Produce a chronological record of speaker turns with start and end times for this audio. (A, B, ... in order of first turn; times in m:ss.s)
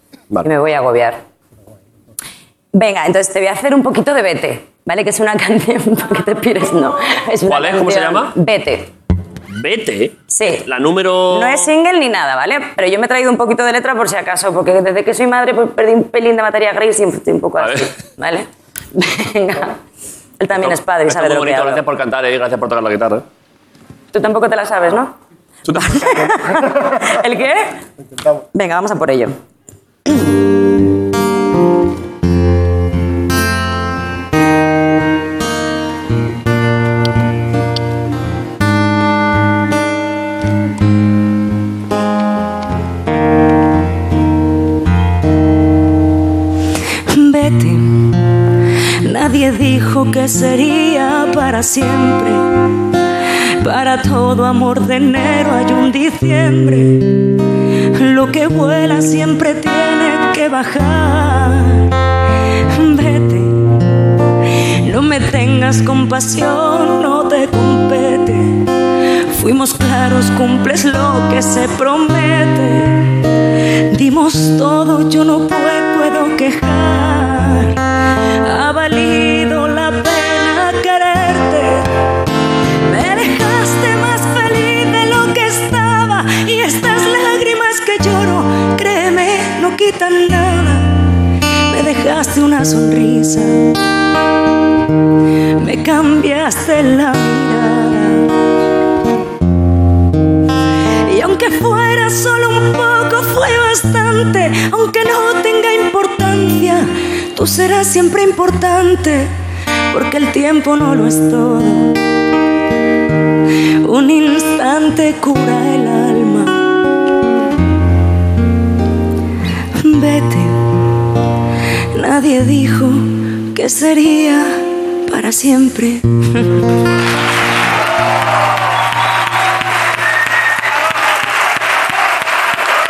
0:00.4-0:01.2 A
0:02.7-0:08.9 A
0:07.5-0:08.3 B
0:09.6-0:11.7 B
0:10.3-0:10.6 A
0:11.2-0:19.8 A
0:17.6-0:17.9 B
0:20.4-0:21.8 A
0:20.5-0:23.2 B
0:24.1-0:25.1 A
0:25.6-0:26.3 B
0:25.7-0:27.8 A
0:28.5-0:29.4 A
0:47.1-0:48.2 C
0:49.0-0:52.4 C
0:53.6-0:57.0 C
0:57.9-1:01.9 C
1:02.7-1:03.6 C
1:04.8-1:08.7 C
1:09.3-1:13.2 C
1:13.9-1:17.8 C
1:18.4-1:21.9 C
1:22.8-1:31.1 C
1:31.7-1:33.7 C
1:35.6-1:38.3 C
1:41.0-1:49.3 C
1:49.9-1:51.9 C
1:53.8-1:56.6 C
1:59.8-2:00.6 C
2:01.9-2:06.5 C